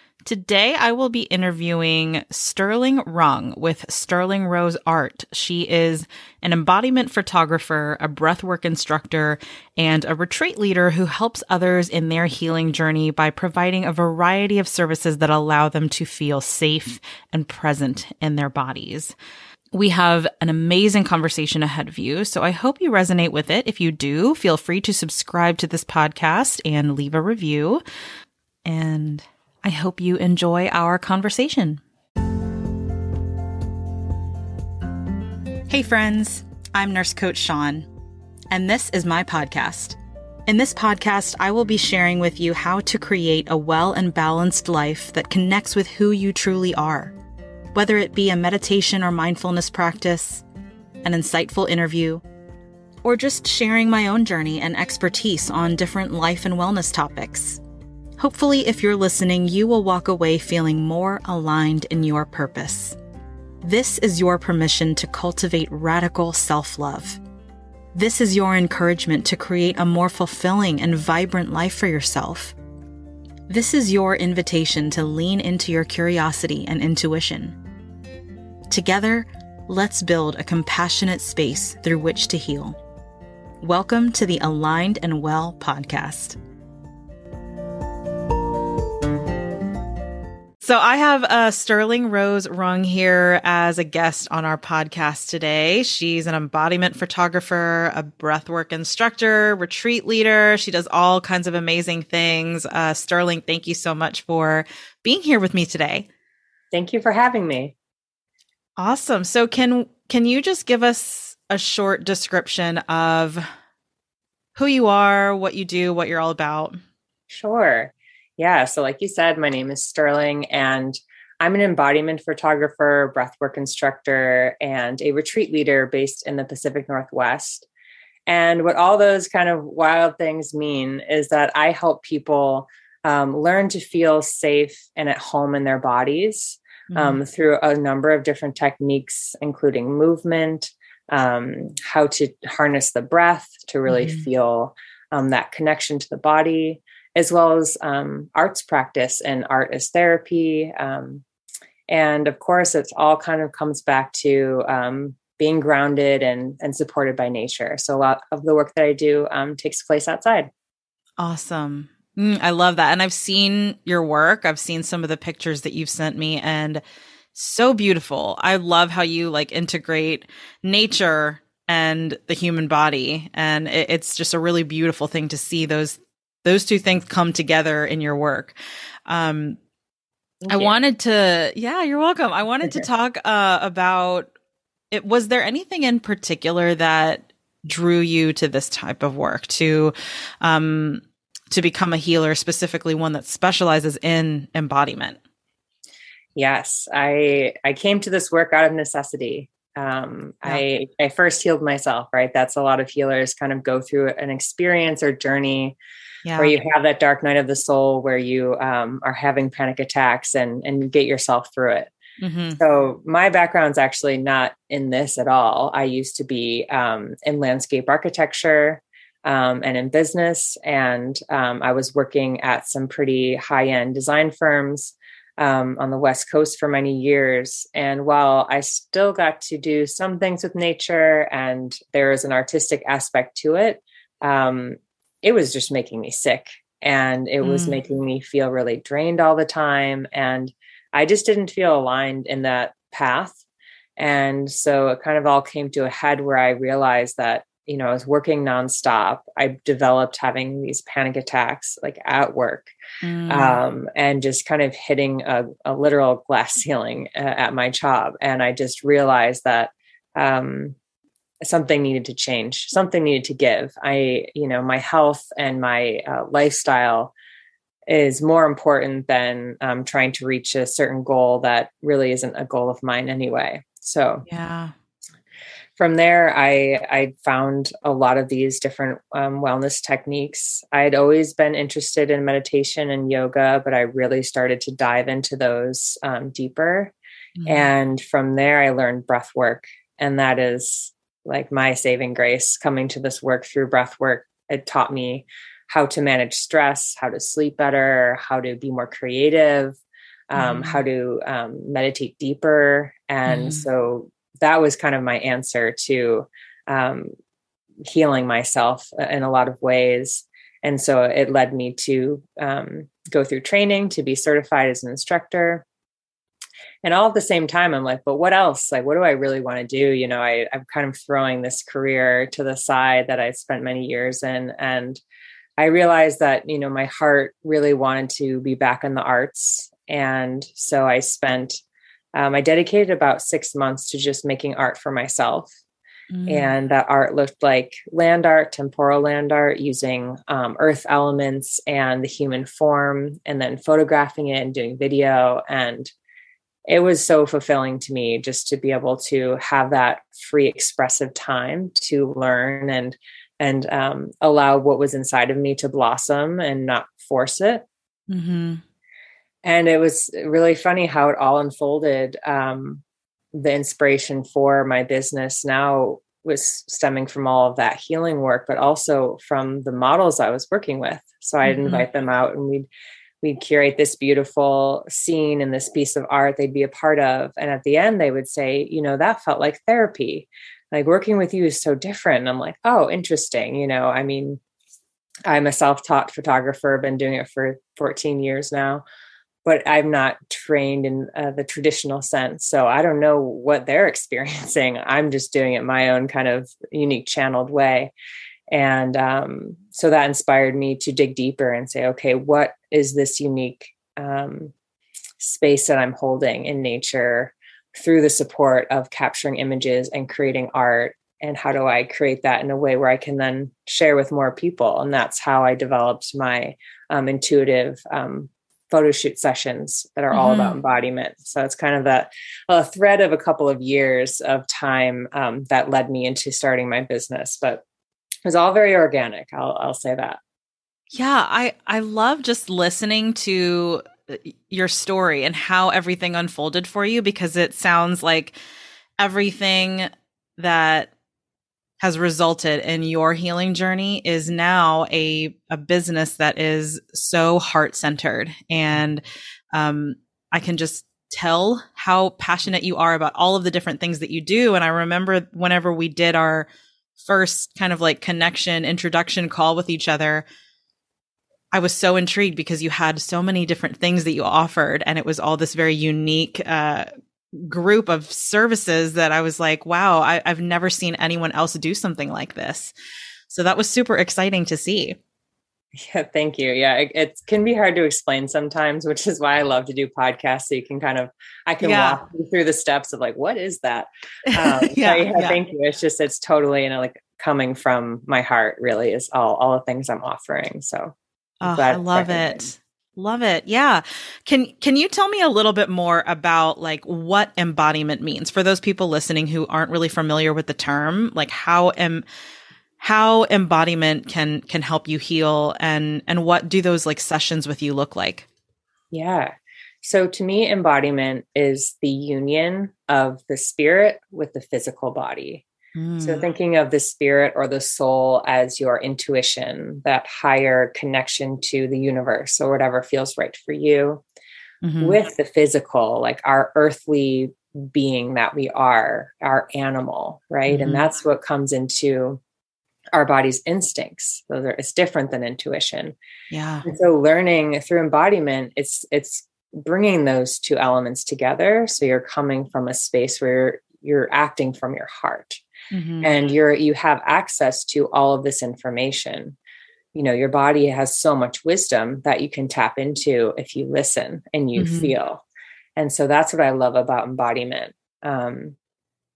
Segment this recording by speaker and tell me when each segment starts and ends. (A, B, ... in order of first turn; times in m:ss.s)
0:00.2-0:19.2 A
0:19.7-0:27.8 A
0:28.6-0:31.8 A
0:35.7-0:37.9 A
0:38.5-0:47.1 A
0:47.7-0:50.4 A
0:51.0-0:52.2 A
0:53.0-0:57.6 A
0:58.2-1:03.0 A
1:03.6-1:07.2 A
1:07.9-1:12.5 A
1:13.5-1:17.6 A
1:18.7-1:22.8 A
1:23.6-1:26.4 A
1:30.6-1:46.1 A
1:46.7-1:47.7 B
1:48.8-1:53.4 A
1:54.6-1:56.8 A
1:57.3-2:07.7 B
2:08.2-2:31.2 B
2:16.9-2:17.2 A
2:23.9-2:24.2 A
2:31.9-2:40.5 B
2:41.2-2:46.8 A
2:47.3-2:58.5 A
2:59.1-2:59.6 A
3:00.4-3:00.7 B
3:00.5-3:04.3 A
3:04.9-3:15.2 A
3:16.4-3:25.8 B
3:26.2-3:26.5 A
3:26.4-3:31.9 B
3:32.2-3:32.6 A
3:32.6-4:03.4 B
3:57.4-3:57.8 A
4:04.0-4:12.7 B
4:13.0-4:13.6 A
4:13.3-4:20.8 B
4:21.4-4:27.1 B
4:27.9-4:34.2 B
4:34.3-4:34.7 A
4:35.8-4:46.9 B
4:47.4-4:47.7 A
4:47.5-4:59.8 B
5:00.3-5:07.1 B
5:00.4-5:00.8 A
5:03.2-5:03.6 A
5:07.9-5:15.6 B
5:16.8-5:25.0 B
5:25.6-5:31.6 B
5:32.1-5:35.5 B
5:36.1-5:36.5 A
5:36.3-5:45.9 B
5:46.7-5:57.6 B
5:58.1-5:58.6 A
5:59.4-6:02.8 B
6:03.3-6:12.7 B
6:11.4-6:11.8 A
6:13.2-6:24.4 B
6:25.2-6:28.8 B
6:29.4-6:37.9 B
6:38.5-6:44.5 B
6:45.2-7:07.6 B
7:00.1-7:00.6 A
7:08.2-7:10.2 B
7:10.9-7:18.4 A
7:19.0-7:20.9 A
7:21.8-7:36.5 A
7:37.0-7:40.2 A
7:41.5-7:52.7 A
7:53.3-7:55.0 A
7:55.7-8:12.4 B
8:01.6-8:02.0 A
8:04.3-8:05.4 A
8:11.4-8:22.0 A
8:22.8-8:28.3 A
8:28.9-8:29.3 B
8:29.8-8:35.4 B
8:35.8-8:36.3 A
8:36.0-8:44.0 B
8:44.6-8:45.0 A
8:44.8-8:52.2 B
8:50.5-8:50.8 A
8:52.9-8:55.9 B
8:56.3-8:56.6 A
8:56.6-9:05.4 B
9:05.7-9:06.1 A
9:06.0-9:09.4 B
9:09.9-9:15.2 B
9:14.6-9:14.9 A
9:15.8-9:18.6 B